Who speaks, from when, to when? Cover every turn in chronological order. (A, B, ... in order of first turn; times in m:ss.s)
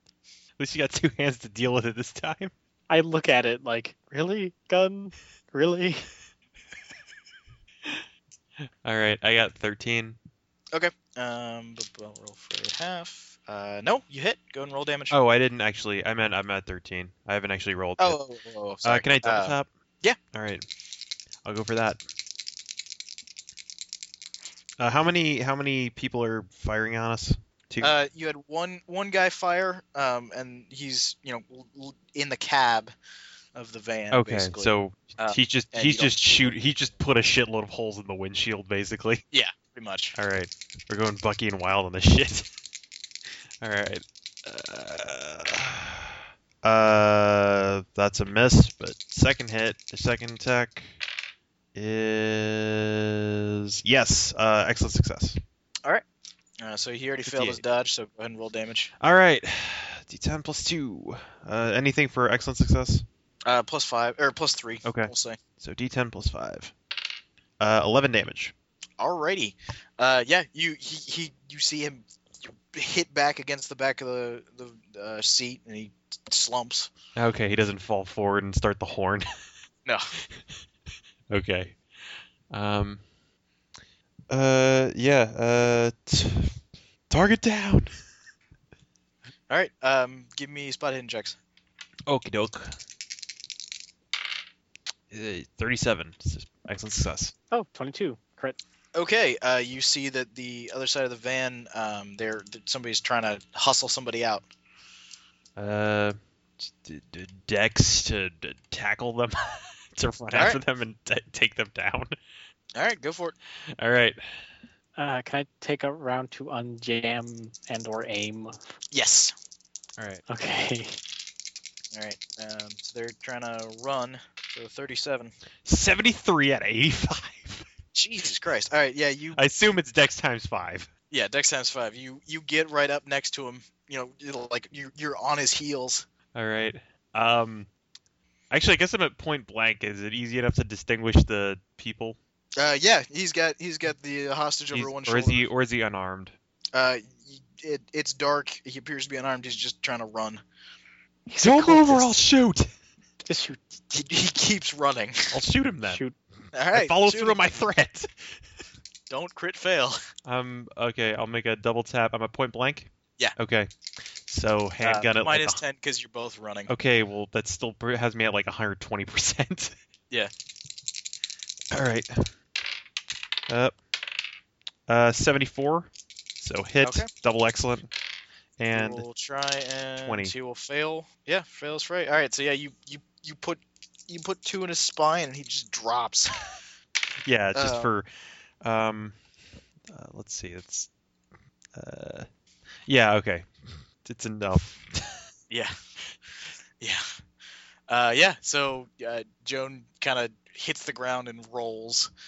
0:00.6-0:02.5 A
0:02.9-0:06.1 B
0:08.8-0:10.2 A
0:10.7-0:15.2 C
0:15.1-0:18.2 A
0:18.0-0:20.2 C
0:18.8-0:19.7 A
0:20.3-0:20.7 A
0:21.4-0:22.0 A
0:24.8-0:27.9 A
0:27.8-0:32.9 C
0:33.6-0:36.6 C
0:34.1-0:39.2 A
0:39.3-0:40.2 C
0:40.2-0:42.5 A
0:43.6-0:50.9 A
0:51.8-0:55.4 A
0:56.6-0:58.9 C
0:57.3-0:57.6 A
0:59.0-1:03.0 A
1:03.5-1:05.4 C
1:04.8-1:06.7 A
1:07.6-1:08.5 A
1:09.0-1:16.9 C
1:17.2-1:19.3 A
1:19.8-1:20.1 C
1:21.3-1:21.8 A
1:22.5-1:23.0 A
1:24.3-1:26.6 A
1:27.1-1:27.9 A
1:29.5-1:31.4 C
1:32.1-1:32.8 A
1:35.1-1:37.3 A
1:37.5-1:38.6 B
1:39.0-1:44.5 C
1:45.6-1:52.2 A
1:50.3-1:50.6 C
1:52.8-1:53.4 C
1:53.8-1:54.2 A
1:55.0-1:58.6 B
1:58.9-1:59.3 C
2:00.0-2:00.2 A
2:00.3-2:01.0 B
2:01.9-2:05.3 C
2:05.6-2:07.7 A
2:07.9-2:09.4 C
2:09.4-2:10.9 A
2:11.1-2:16.0 C
2:16.4-2:17.7 A
2:18.5-2:22.2 A
2:22.6-2:25.5 C
2:24.7-2:26.4 A
2:26.7-2:30.4 C
2:31.3-2:32.2 B
2:31.4-2:32.7 A
2:33.2-2:33.6 B
2:33.9-2:35.3 C
2:35.3-2:36.0 A
2:35.9-2:36.2 B
2:36.5-2:37.4 C
2:36.7-2:38.4 A
2:39.1-2:40.0 C
2:40.3-2:43.7 A
2:44.3-2:45.6 A
2:44.8-2:46.7 C
2:46.7-2:49.8 A
2:51.7-2:52.3 A
2:53.5-2:53.7 A
2:54.9-2:57.9 A
2:56.8-2:57.1 C
2:58.6-2:59.0 A
2:58.7-3:06.3 C
3:00.0-3:00.3 A
3:07.2-3:08.1 A
3:07.5-3:07.9 C
3:08.6-3:09.2 A
3:09.9-3:10.9 A
3:11.8-3:12.3 A
3:12.9-3:15.2 A
3:17.9-3:22.1 C